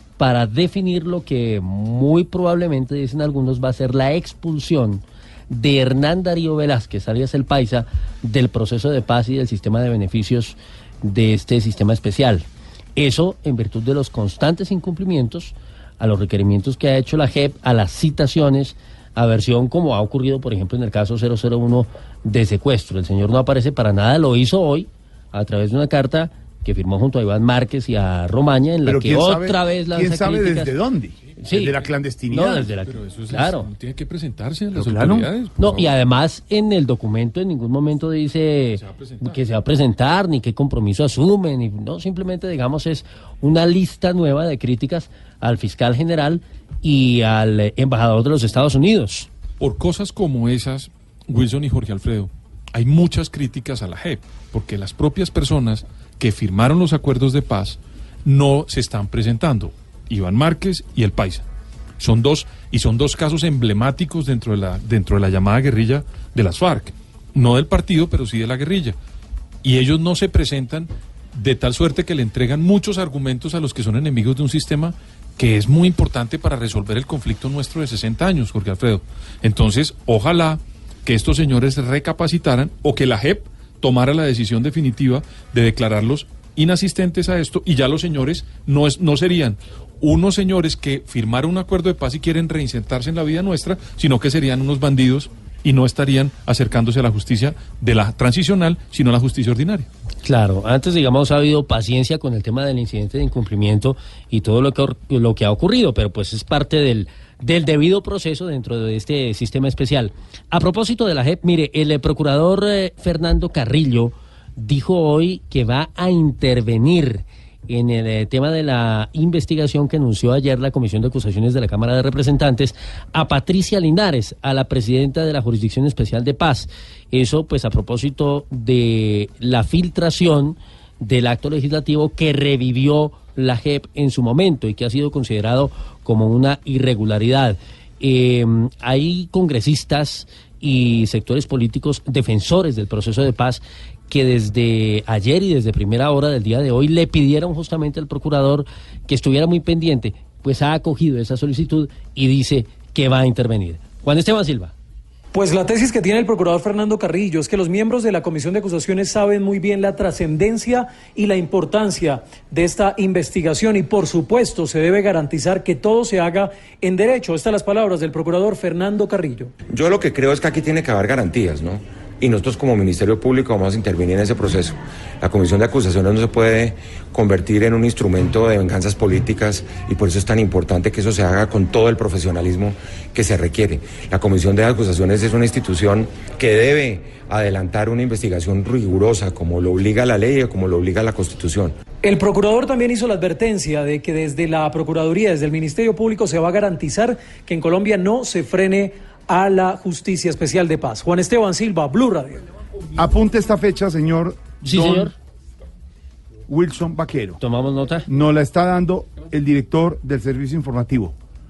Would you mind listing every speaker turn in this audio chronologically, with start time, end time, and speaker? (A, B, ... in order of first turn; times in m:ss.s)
0:00.2-0:12.4 A
0:13.0-0:30.8 A
0:28.8-0:32.6 B
0:31.4-0:33.7 A
0:32.7-0:35.9 C
0:34.7-0:35.3 B
0:35.6-0:49.3 A
0:38.7-0:39.4 C
0:49.6-1:01.4 C
1:02.0-1:09.0 C
1:09.6-1:39.9 C
1:40.2-2:34.7 A
2:35.3-2:49.5 D
2:49.7-3:11.8 E
3:12.0-3:22.4 D
3:22.9-3:25.1 B
3:24.6-3:25.1 A
3:26.5-3:27.4 B
3:27.4-3:28.1 A
3:28.1-3:31.1 B